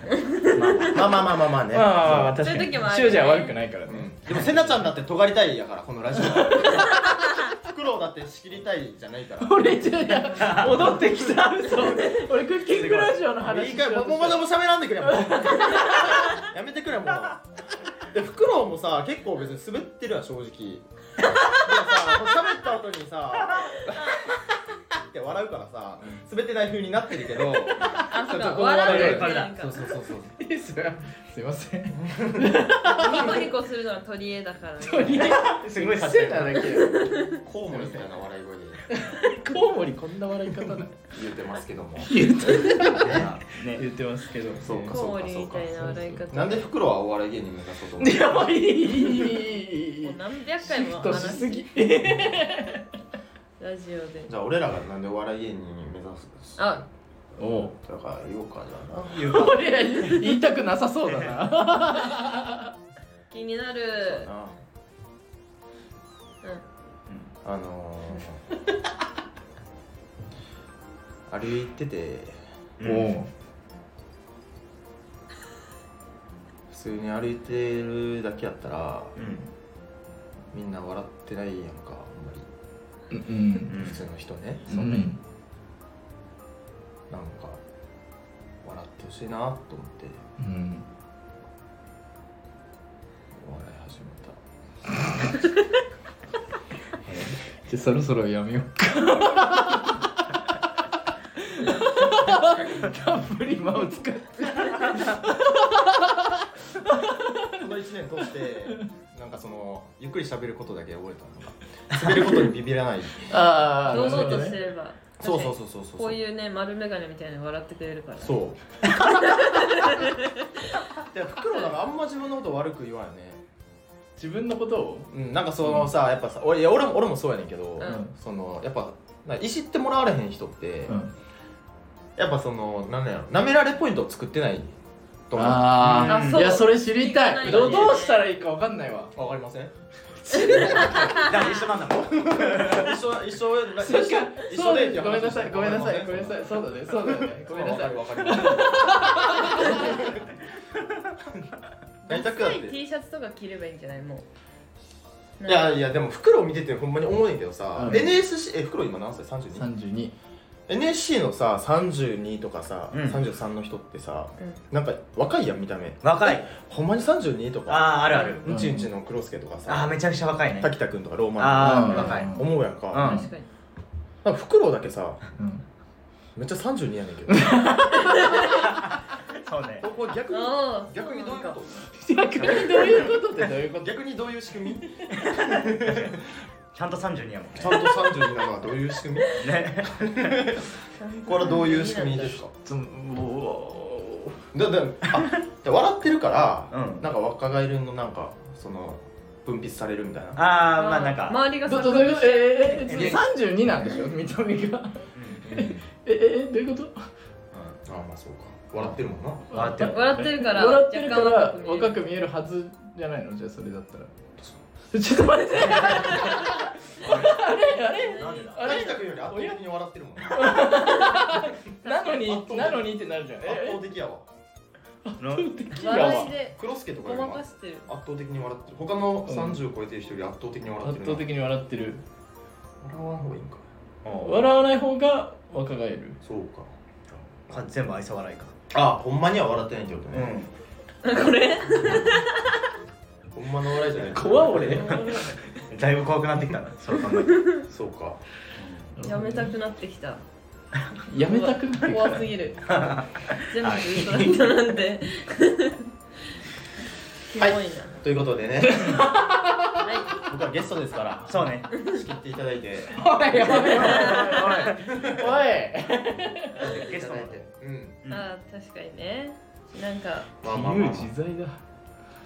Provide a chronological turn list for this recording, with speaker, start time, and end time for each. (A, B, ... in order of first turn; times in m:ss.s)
0:00.3-0:00.9 A
0:00.5-0:01.3 B
0:00.9-0:02.4 C
0:01.7-0:04.1 D
0:02.4-0:03.6 A
0:03.9-0:09.7 C
0:06.2-0:06.9 D
0:09.4-0:14.4 D
0:10.3-0:11.0 B
0:12.8-0:13.1 B
0:12.8-0:17.4 C
0:15.0-0:16.4 D
0:18.1-0:20.9 C
0:21.5-0:24.1 C
0:24.9-0:30.4 C
0:27.7-0:28.1 D
0:28.0-0:29.9 A
0:28.7-0:29.5 B
0:28.9-0:29.2 D
0:30.4-0:33.5 D
0:31.9-0:32.6 C
0:32.8-0:35.4 A
0:34.8-0:37.2 D
0:35.1-0:36.8 B
0:36.8-0:37.4 A
0:37.4-0:38.9 C
0:37.7-0:38.0 D
0:38.9-0:40.9 D
0:41.0-0:43.2 C
0:42.0-0:45.0 D
0:42.9-0:43.8 B
0:44.6-0:48.5 C
0:44.9-0:46.7 A
0:45.8-0:46.2 D
0:48.0-0:52.9 D
0:50.0-0:51.7 A
0:53.6-0:54.3 A
0:54.3-0:56.6 C
0:56.6-0:56.9 A
0:57.4-0:57.7 D
0:57.6-0:59.4 C
0:59.1-1:00.2 B
0:59.2-1:02.7 D
1:01.1-1:01.3 B
1:03.3-1:04.3 A
1:04.0-1:04.6 C
1:07.4-1:08.4 C
1:11.3-1:12.4 C
1:12.8-1:13.2 B
1:12.8-1:13.3 D
1:16.7-1:19.1 C
1:19.2-1:19.5 B
1:20.5-1:22.5 C
1:23.1-1:23.7 D
1:23.7-1:24.0 B
1:23.8-1:25.1 C
1:24.7-1:25.2 D
1:27.1-1:27.6 C
1:28.6-1:30.2 C
1:30.4-1:30.8 D
1:33.3-1:34.4 C
1:37.1-1:37.4 B
1:37.6-1:40.2 D
1:41.4-1:47.6 D
1:47.6-1:54.5 C
1:51.9-1:52.4 B
1:53.3-1:54.6 D
1:53.9-1:58.4 A
1:55.2-1:56.2 C
1:58.2-1:58.6 C
1:59.1-2:00.2 A
2:00.8-2:03.4 C
2:04.2-2:05.1 D
2:05.1-2:11.0 C
2:05.6-2:05.9 D
2:07.8-2:08.1 D
2:12.2-2:14.7 C
2:15.3-2:16.1 C
2:15.4-2:19.1 D
2:15.8-2:16.6 B
2:16.1-2:18.2 A
2:17.6-2:17.9 C
2:19.1-2:19.7 C
2:20.2-2:21.2 D
2:20.3-2:21.6 A
2:20.7-2:23.0 B
2:20.7-2:21.1 C
2:21.9-2:30.2 C
2:23.8-2:30.0 D
2:32.0-2:34.2 A
2:32.1-2:32.8 C
2:35.4-2:35.8 A
2:35.4-2:39.7 C
2:37.8-2:38.1 D
2:39.5-2:40.1 D
2:40.7-2:49.9 C
2:42.9-2:43.2 B
2:46.0-2:46.5 B
2:47.7-2:48.5 B
2:48.1-2:48.6 A
2:48.5-2:48.9 D
2:49.7-2:50.7 B
2:50.6-2:53.1 C
2:51.4-2:52.3 B
2:51.6-2:52.5 D
2:52.9-2:53.3 B
2:53.0-2:53.4 A
2:53.0-2:53.3 D
2:54.2-2:55.2 C
2:55.4-2:55.6 D
2:56.4-2:57.6 C
2:57.3-2:58.4 D
2:58.0-2:58.6 A
2:58.4-2:59.9 B
2:59.8-3:03.1 C
3:00.3-3:01.6 A
3:01.9-3:03.9 D
3:02.4-3:03.1 B
3:03.7-3:06.4 C
3:05.1-3:06.2 B
3:06.7-3:07.8 B
3:07.6-3:12.5 C
3:09.4-3:10.4 B
3:11.0-3:12.4 A
3:12.6-3:14.4 D
3:14.5-3:20.4 C
3:16.7-3:17.0 B
3:20.4-3:21.5 B
3:20.8-3:23.2 A
3:21.7-3:27.1 D
3:22.7-3:23.2 B
3:25.1-3:25.4 B
3:25.4-3:25.9 C
3:27.5-3:27.8 B
3:27.8-3:29.5 C
3:29.5-3:34.1 D
3:29.5-3:30.4 B
3:29.7-3:32.0 A
3:34.9-3:39.6 D
3:35.6-3:36.4 B
3:37.8-3:38.7 A
3:38.2-3:38.7 B
3:38.6-3:40.8 C
3:40.3-3:43.8 D
3:41.8-3:42.2 A
3:42.2-3:44.2 C
3:45.0-3:46.3 D
3:45.2-3:45.5 B
3:45.7-3:47.9 A
3:46.0-3:51.3 C
3:49.2-3:49.6 D
3:50.8-3:52.0 D
3:52.8-3:53.6 C
3:54.0-3:54.4 B
3:54.2-3:56.2 D
3:56.2-3:56.7 C
3:57.5-3:58.5 B
3:58.7-4:00.3 C
4:00.1-4:00.5 B
4:01.0-4:02.5 A
4:03.3-4:04.9 C
4:04.1-4:05.0 D
4:04.6-4:05.4 A
4:04.8-4:07.5 B
4:07.2-4:07.6 A
4:07.7-4:08.2 C
4:08.6-4:08.9 B
4:09.0-4:09.5 D
4:09.0-4:10.2 A
4:11.1-4:12.3 D
4:11.2-4:12.9 A
4:12.6-4:14.5 B
4:13.5-4:15.9 A
4:17.3-4:18.0 A
4:17.4-4:19.1 C
4:18.6-4:19.9 D
4:19.8-4:20.2 A
4:20.2-4:25.4 C
4:21.3-4:21.7 B
4:22.9-4:26.6 D
4:23.8-4:24.3 A
4:26.6-4:27.4 B
4:26.6-4:28.0 C
4:28.1-4:30.3 A
4:30.4-4:31.1 C
4:30.4-4:31.6 D